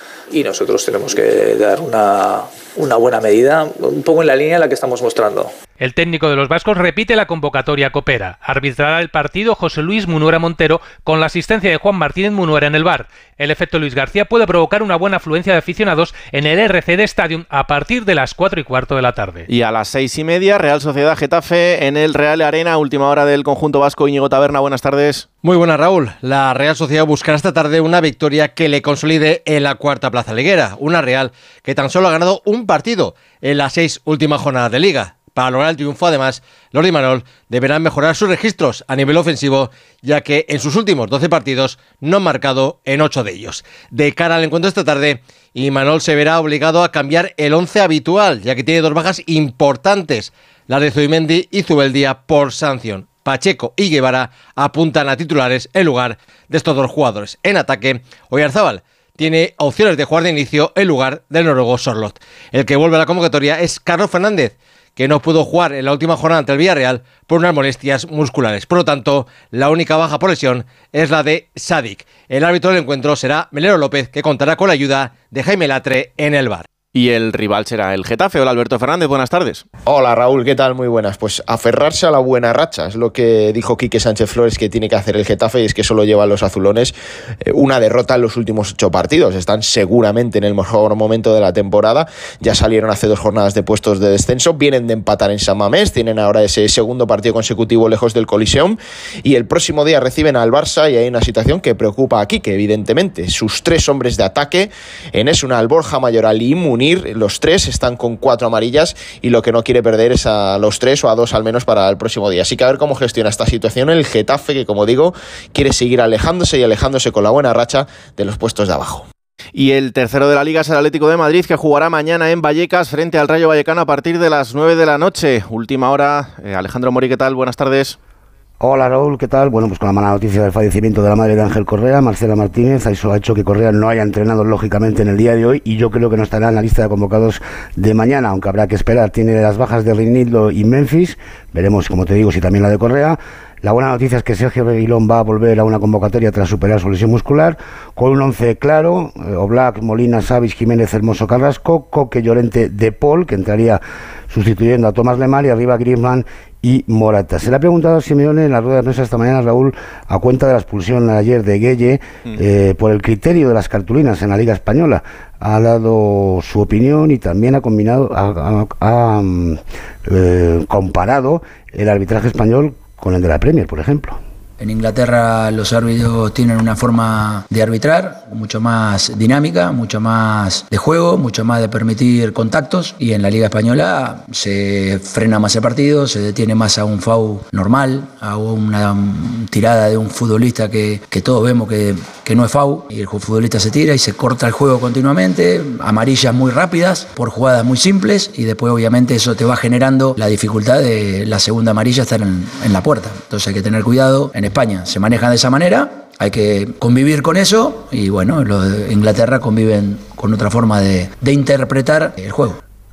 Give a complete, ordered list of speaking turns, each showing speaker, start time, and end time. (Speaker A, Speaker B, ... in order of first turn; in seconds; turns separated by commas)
Speaker A: 0.3-5.5, Speaker B: 5.8-19.4, Speaker C: 19.5-25.3, Speaker D: 25.4-76.7, Speaker C: 76.9-79.6, Speaker E: 79.9-119.0, Speaker C: 119.5-128.0, Speaker F: 128.6-174.2, Speaker G: 174.6-212.6